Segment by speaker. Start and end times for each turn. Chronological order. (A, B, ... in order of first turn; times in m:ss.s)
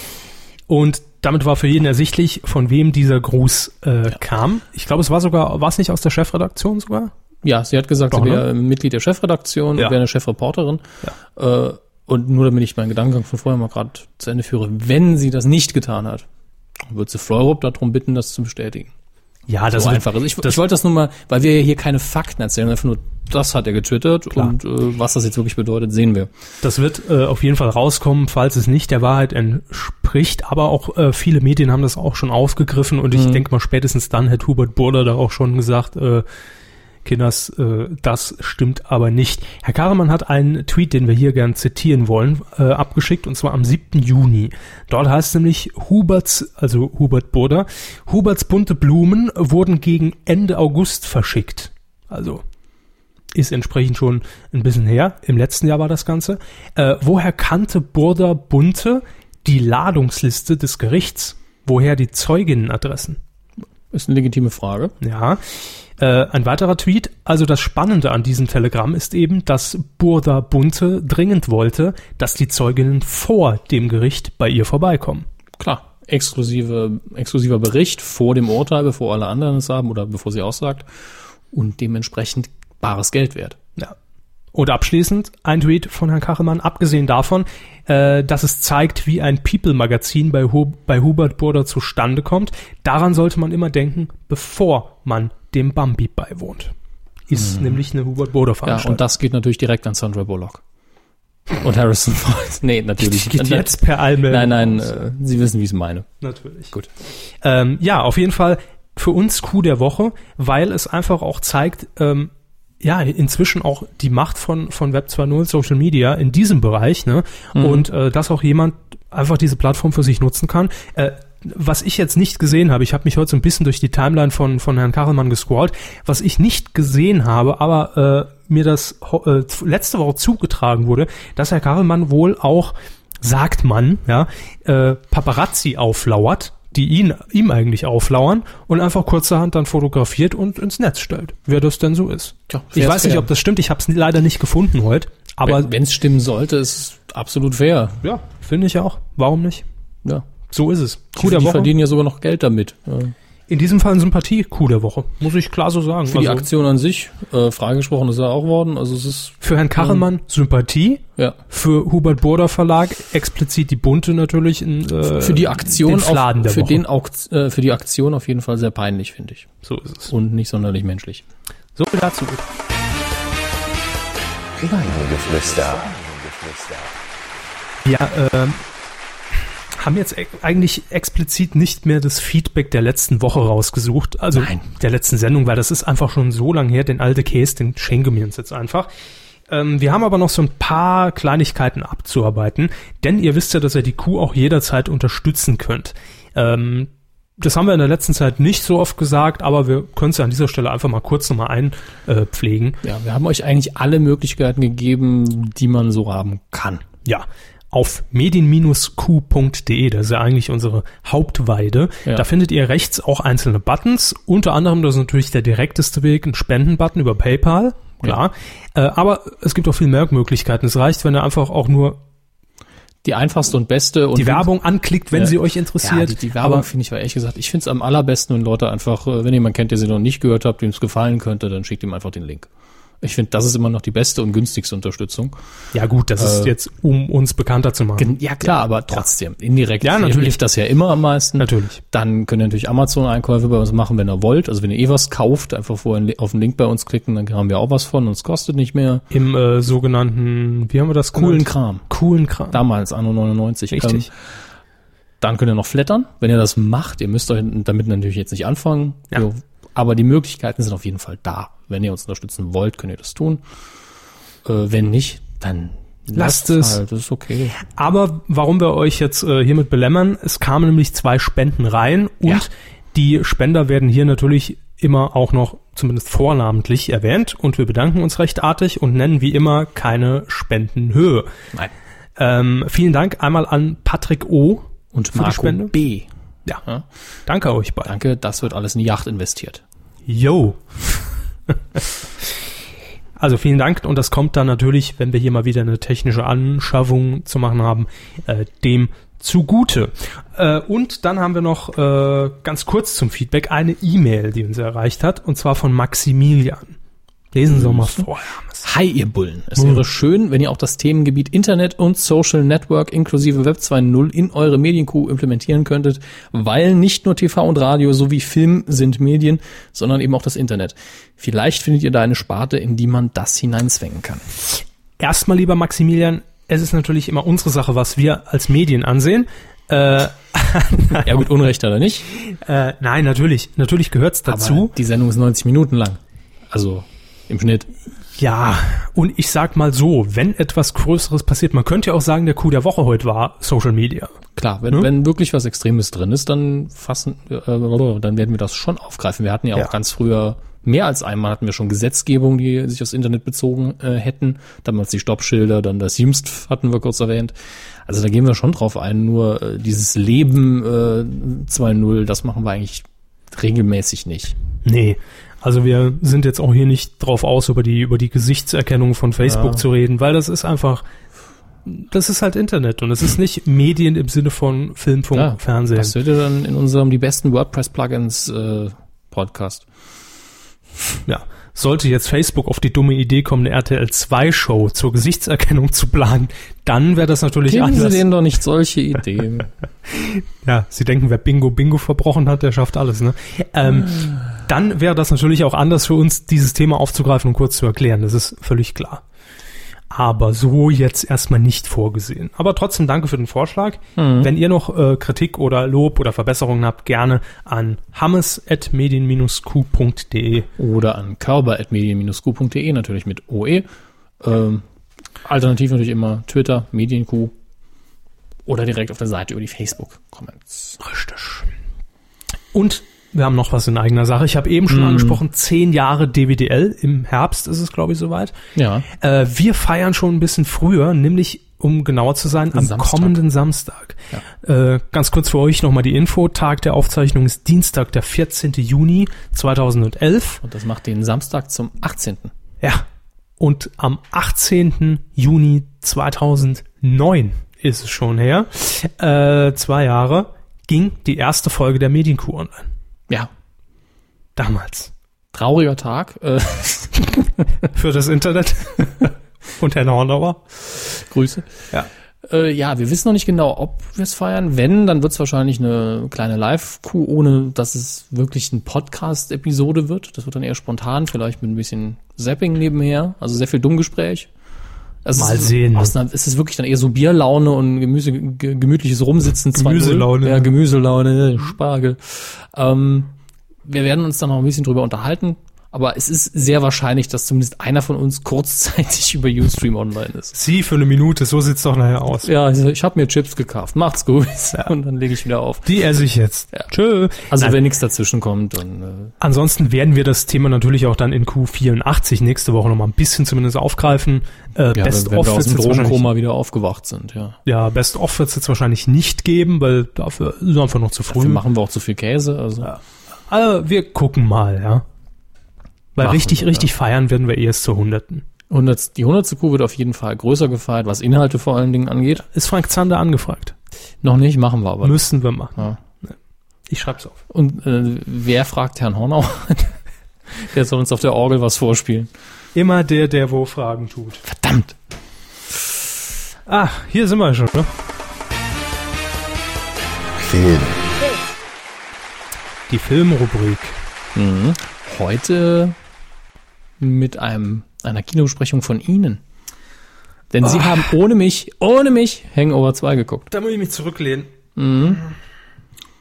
0:00.7-0:07.1 A
0:07.4-0:10.8 B
0:08.1-0:08.4 A
0:11.3-0:16.2 B
0:16.9-0:18.9 B
0:19.5-0:20.6 A
0:19.7-0:26.3 B
0:26.6-0:36.2 A
0:33.1-0:33.4 B
0:37.0-0:52.4 A
0:53.3-1:03.2 A
1:03.9-1:04.9 B
1:05.0-1:05.4 A
1:06.0-1:15.2 A
1:15.6-1:20.9 B
1:21.5-1:23.6 B
1:24.5-1:36.7 A
1:37.3-1:39.0 A
1:37.3-1:37.8 B
1:38.6-1:40.6 B
1:41.6-1:46.1 B
1:43.0-1:45.0 A
1:46.2-1:46.7 A
1:47.4-1:52.3 A
1:52.8-2:25.7 A
1:57.5-1:57.9 B
2:22.5-2:23.3 B
2:25.4-2:28.0 B
2:28.0-2:29.6 A
2:30.5-2:31.7 A
2:31.2-2:33.1 B
2:33.5-2:36.5 A
2:36.1-2:40.0 B
2:39.4-2:46.8 A
2:45.1-2:49.5 B
2:49.6-2:50.1 A
2:50.1-2:51.2 B
2:51.8-2:52.4 A
2:54.6-2:55.8 B
2:54.6-2:56.9 C
2:57.8-2:58.6 A
2:59.8-3:08.9 A
3:04.3-3:04.6 B
3:09.5-3:22.8 A
3:22.8-3:26.8 B
3:27.0-3:42.0 A
3:43.0-3:44.5 B
3:44.1-3:46.6 A
3:45.1-3:52.5 B
3:53.0-3:55.3 B
3:55.7-3:59.0 A
3:56.2-3:56.5 B
3:58.0-4:09.0 B
3:59.8-4:00.4 A
4:01.4-4:01.8 A
4:09.1-4:12.6 A
4:11.1-4:11.8 B
4:12.5-4:14.1 B
4:13.7-4:14.1 A
4:15.2-4:23.4 B
4:24.4-4:27.6 B
4:26.1-4:26.8 A
4:27.7-4:41.3 A
4:42.2-4:45.7 A
4:44.9-4:46.1 B
4:47.3-4:47.9 A
4:47.8-4:49.6 B
4:50.1-4:51.0 A
4:53.2-5:06.8 A
5:07.3-5:08.7 A
5:07.5-5:08.0 B
5:08.6-5:24.2 B
5:09.6-5:09.8 A
5:25.0-5:31.1 A
5:30.9-5:32.0 B
5:32.3-5:34.7 A
5:34.3-5:37.7 B
5:38.2-5:44.1 A
5:44.4-5:57.3 B
5:57.8-6:04.4 B
6:04.6-6:10.8 A
6:09.2-6:09.6 B
6:11.6-6:15.9 A
6:15.1-6:19.6 B
6:21.0-6:28.0 A
6:27.5-6:29.5 B
6:29.9-6:39.0 A
6:39.9-6:50.5 A
6:44.0-6:44.3 B
6:50.6-6:53.7 B
6:54.2-6:54.6 B
6:55.2-6:57.3 B
6:58.4-7:00.8 B
7:00.8-7:01.5 A
7:02.5-7:08.3 A
7:04.7-7:05.2 B
7:08.6-7:08.8 B
7:09.0-7:20.4 A
7:12.5-7:13.2 B
7:20.4-7:22.3 B
7:23.4-7:32.7 A
7:34.4-7:34.9 A
7:35.3-7:37.4 B
7:37.7-7:40.4 A
7:40.9-7:41.5 B
7:42.2-7:54.3 B
7:55.0-8:03.1 B
7:55.2-7:55.9 A
7:59.6-8:00.5 A
8:03.6-8:10.3 B
8:10.3-8:12.3 A
8:12.2-8:15.7 B
8:15.6-8:17.6 A
8:17.3-8:19.1 B
8:19.2-8:26.1 A
8:24.7-8:27.4 B
8:27.4-8:31.4 A
8:31.1-8:32.7 B
8:32.6-8:34.8 A
8:36.0-8:38.2 A
8:36.0-8:36.7 B
8:38.5-8:42.2 B
8:42.3-8:43.5 A
8:44.0-8:45.0 B
8:44.8-8:46.1 A
8:46.7-8:47.2 A
8:47.3-8:49.7 B
8:50.3-8:52.1 B
8:52.5-8:54.2 A
8:54.2-8:54.8 B
8:56.5-8:57.7 A
9:00.2-9:00.9 C
9:02.7-9:03.8 A
9:04.1-9:05.8 B
9:06.8-9:09.2 B
9:10.3-9:13.3 B
9:10.4-9:10.8 A
9:13.3-9:14.3 A
9:14.6-9:15.0 B